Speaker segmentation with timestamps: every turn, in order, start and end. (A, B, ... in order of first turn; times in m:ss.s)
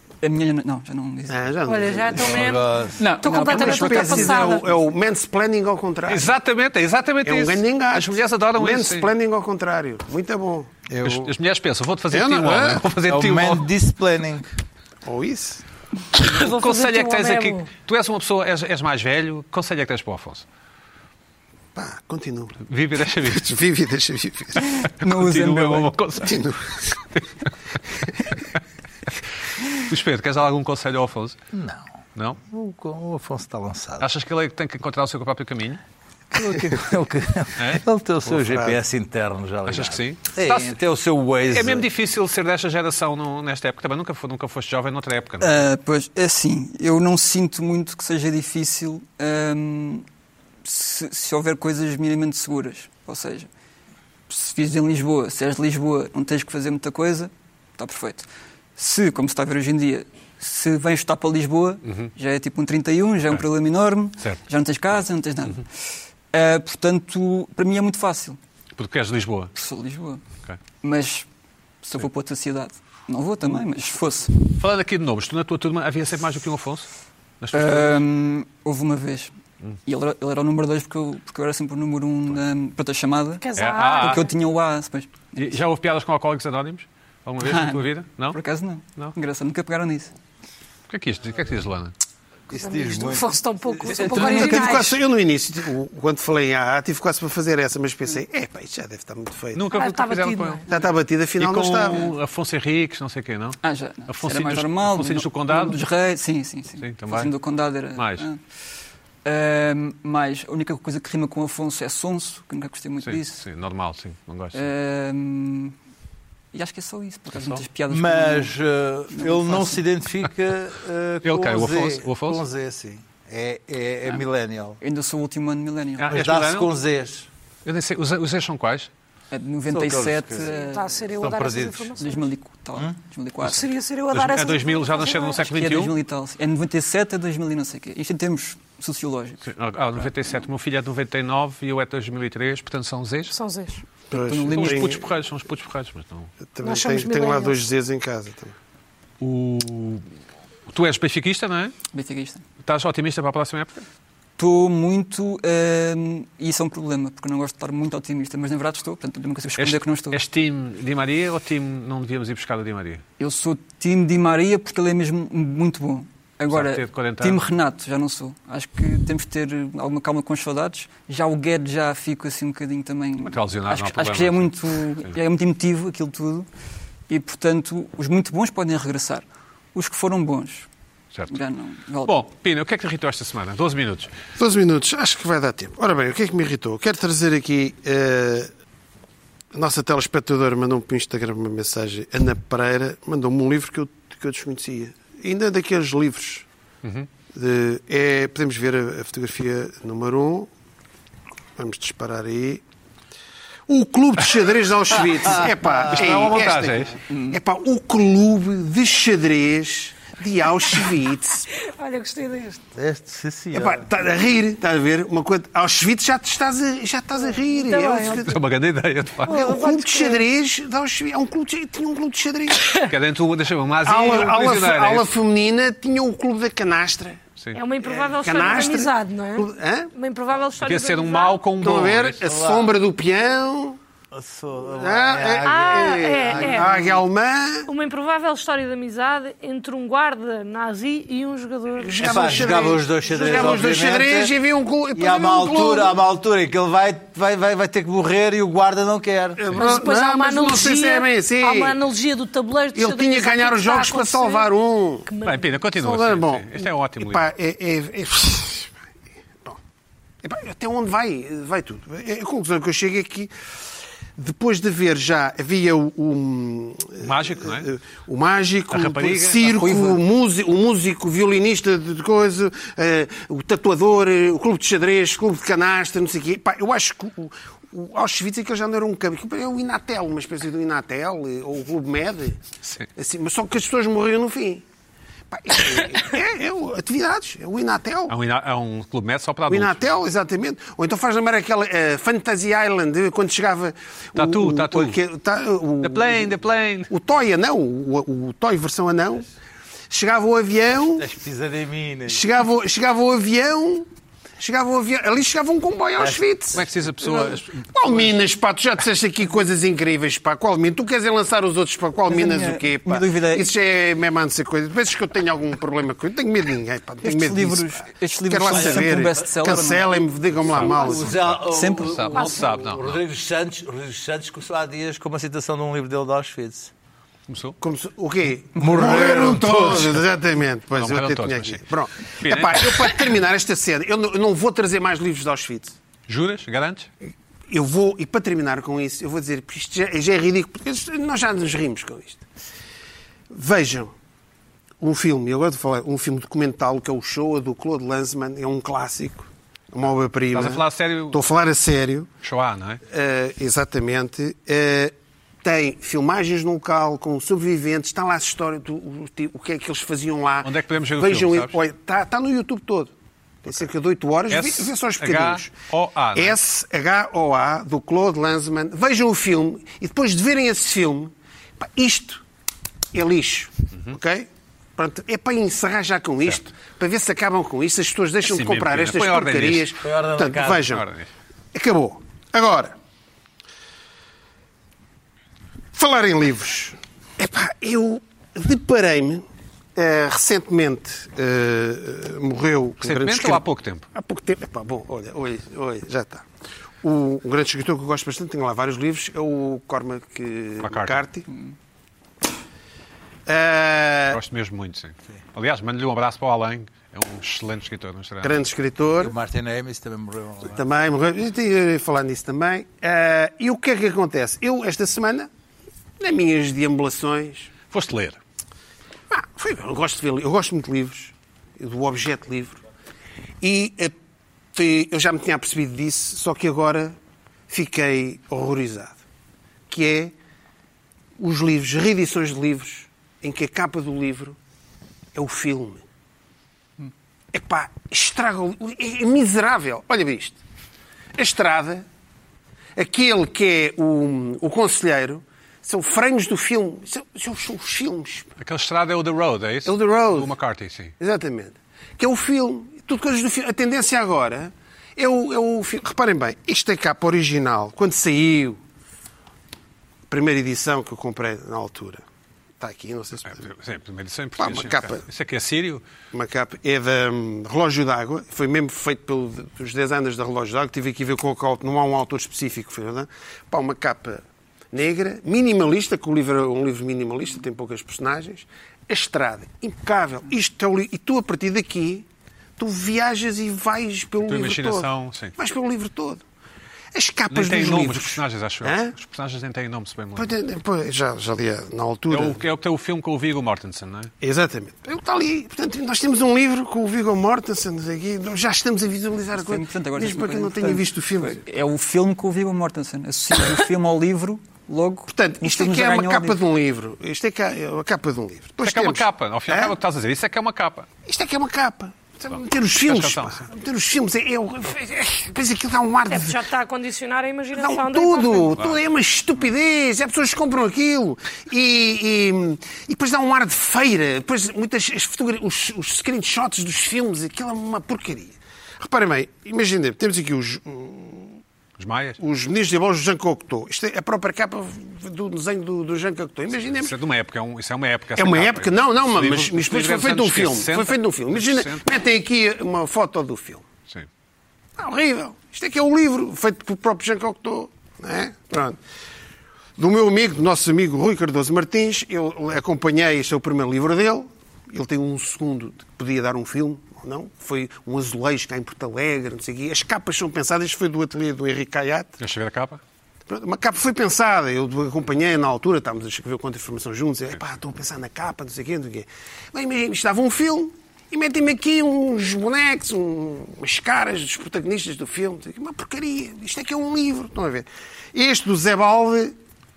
0:00.2-0:01.5 A
0:01.3-0:02.6 B
0:01.6-0:04.7 C
0:02.2-0:03.0 D
0:03.0-0:04.6 A
0:03.4-0:06.3 B
0:06.1-0:09.1 E
0:07.2-0:10.7 B
0:10.9-0:11.3 D
0:11.0-0:13.7 E
0:12.1-0:12.9 B
0:13.1-0:14.5 D
0:15.0-0:15.6 B
0:16.1-0:20.4 E
0:16.2-0:17.7 C
0:21.8-0:22.6 B
0:22.6-0:23.6 E
0:23.3-0:24.7 B
0:24.8-0:26.0 A
0:25.0-0:26.4 E
0:26.2-0:27.0 B
0:29.7-0:31.4 E
0:31.5-0:31.8 D
0:32.4-0:34.1 D
0:34.0-0:35.8 E
0:36.3-0:41.9 D
0:37.6-0:37.8 E
0:38.3-0:38.8 B
0:39.7-0:40.8 E
0:41.5-0:45.6 E
0:45.4-0:50.0 A
0:50.6-0:53.5 A
0:54.3-1:05.7 A
1:01.8-1:02.1 E
1:06.3-1:08.4 A
1:08.8-1:09.5 E
1:09.6-1:10.2 A
1:10.8-1:11.3 A
1:11.8-1:14.4 A
1:14.6-1:16.9 E
1:17.4-1:18.0 E
1:17.5-1:19.3 A
1:19.8-1:25.5 A
1:23.4-1:24.3 C
1:23.6-1:24.3 E
1:25.4-1:28.4 E
1:27.4-1:30.1 A
1:30.9-1:31.9 E
1:32.5-1:34.2 D
1:32.5-1:35.0 C
1:34.0-1:34.8 A
1:34.1-1:39.6 B
1:39.5-1:40.6 E
1:39.7-1:40.6 C
1:40.7-1:42.1 B
1:41.4-1:45.8 E
1:43.6-1:48.4 A
1:46.8-1:47.3 E
1:48.0-1:48.3 E
1:49.2-1:53.4 A
1:53.0-1:54.6 E
1:54.5-1:55.8 A
1:56.5-1:58.5 A
1:57.3-1:57.7 E
1:57.9-2:04.8 D
1:59.1-1:59.8 A
2:01.2-2:02.4 E
2:04.8-2:06.2 A
2:06.0-2:06.7 E
2:06.1-2:07.3 D
2:07.6-2:08.9 E
2:09.3-2:10.9 A
2:09.7-2:10.5 D
2:10.4-2:12.2 C
2:11.2-2:11.9 D
2:12.0-2:13.7 A
2:13.4-2:15.4 C
2:14.1-2:16.0 E
2:15.4-2:19.4 A
2:19.4-2:23.4 E
2:23.3-2:23.8 C
2:24.1-2:25.0 B
2:24.2-2:25.0 A
2:24.4-2:26.3 E
2:26.5-2:28.5 B
2:26.6-2:27.6 C
2:29.2-2:30.1 E
2:30.7-2:31.8 E
2:31.9-2:32.4 A
2:32.6-2:33.8 E
2:34.4-2:40.2 A
2:39.6-2:43.0 E
2:43.2-2:56.5 A
2:46.5-2:47.5 E
2:53.2-2:55.2 E
2:57.1-3:00.7 A
3:01.1-3:01.4 E
3:01.3-3:02.2 A
3:02.0-3:04.1 E
3:04.4-3:08.5 B
3:09.5-3:16.4 B
3:17.3-3:20.5 B
3:21.6-3:22.6 B
3:23.7-3:31.5 B
3:25.2-3:26.3 D
3:25.9-3:27.0 E
3:27.1-3:27.4 A
3:31.6-3:32.6 C
3:32.8-3:33.9 D
3:33.5-3:38.4 B
3:37.2-3:38.3 C
3:38.2-3:39.4 E
3:39.3-3:40.3 C
3:39.3-3:42.8 B
3:42.8-3:45.1 E
3:43.8-3:47.2 B
3:47.5-3:51.4 C
3:47.8-3:49.9 B
3:50.6-3:52.2 E
3:51.6-3:53.8 B
3:52.2-3:52.7 D
3:54.1-3:57.0 D
3:54.7-3:57.7 B
3:55.4-3:57.0 C
3:57.7-4:02.5 C
4:01.8-4:06.0 B
4:02.0-4:04.4 D
4:04.9-4:09.4 D
4:09.4-4:11.8 B
4:09.6-4:14.5 C
4:12.8-4:15.1 B
4:15.1-4:15.5 C
4:15.2-4:17.3 E
4:15.8-4:18.7 B
4:20.2-4:23.3 B
4:24.2-4:42.4 B
4:27.0-4:27.7 E
4:28.7-4:29.8 E
4:29.6-4:30.0 A
4:43.0-4:44.6 B
4:45.3-4:48.2 B
4:48.1-4:50.0 E
4:49.5-4:56.4 B
4:54.2-4:55.0 E
4:55.8-4:56.9 E
4:56.9-4:59.3 B
4:59.9-5:01.0 B
5:01.0-5:02.2 D
5:02.1-5:03.9 B
5:04.4-5:21.2 B
5:06.0-5:06.6 D
5:06.5-5:08.1 E
5:12.1-5:13.5 A
5:17.0-5:19.9 A
5:18.5-5:19.0 D
5:20.5-5:23.0 E
5:20.6-5:21.0 C
5:20.6-5:26.7 D
5:21.4-5:22.2 A
5:27.3-5:27.6 E
5:27.6-5:35.8 B
5:28.6-5:30.0 D
5:30.7-5:31.6 E
5:32.2-5:32.9 E
5:36.1-5:36.9 E
5:37.5-5:42.2 B
5:43.3-5:43.9 B
5:44.8-5:52.1 B
5:50.3-5:51.2 E
5:52.2-5:52.8 E
5:52.9-6:02.9 B
6:00.4-6:01.6 E
6:03.4-6:05.5 B
6:04.3-6:06.4 E
6:06.2-6:12.2 B
6:12.9-6:20.9 B
6:18.2-6:19.7 E
6:19.8-6:20.8 D
6:20.7-6:21.1 E
6:21.5-6:22.8 B
6:25.7-6:29.2 B
6:29.8-6:36.3 B
6:32.8-6:33.9 E
6:36.8-6:41.3 B
6:40.6-6:41.0 E
6:43.3-6:44.2 B
6:44.1-6:48.4 E
6:48.2-6:49.1 B
6:49.0-6:50.6 D
6:50.5-6:55.3 B
6:56.0-6:57.5 B
6:57.7-6:58.2 E
6:59.1-7:02.6 B
7:03.4-7:03.9 B
7:04.5-7:07.0 B
7:07.5-7:09.0 B
7:09.7-7:10.1 B
7:11.2-7:14.4 B
7:15.2-7:15.8 B
7:17.3-7:20.4 B
7:21.2-7:21.9 B
7:22.8-7:28.3 B
7:28.4-7:31.0 E
7:29.6-7:30.3 B
7:31.0-7:38.6 B
7:40.1-7:42.0 B
7:42.6-7:43.4 B
7:43.2-7:45.8 E
7:44.4-7:45.0 B
7:46.1-8:02.1 B
8:02.6-8:06.2 B
8:04.2-8:05.4 E
8:06.9-8:09.0 B
8:07.3-8:10.3 E
8:10.2-8:12.4 B
8:12.1-8:14.1 E
8:14.2-8:21.4 B
8:19.3-8:26.4 A
8:25.1-8:29.8 B
8:28.6-8:30.9 E
8:31.0-8:36.4 B
8:32.8-8:33.5 E
8:36.1-8:38.6 C
8:37.6-8:51.4 B
8:51.8-8:52.2 E
8:52.2-8:57.0 B
8:56.8-9:01.8 E
8:58.2-9:03.6 B
9:04.8-9:08.8 B
9:09.8-9:22.2 B
9:22.2-9:22.8 E
9:23.3-9:39.4 B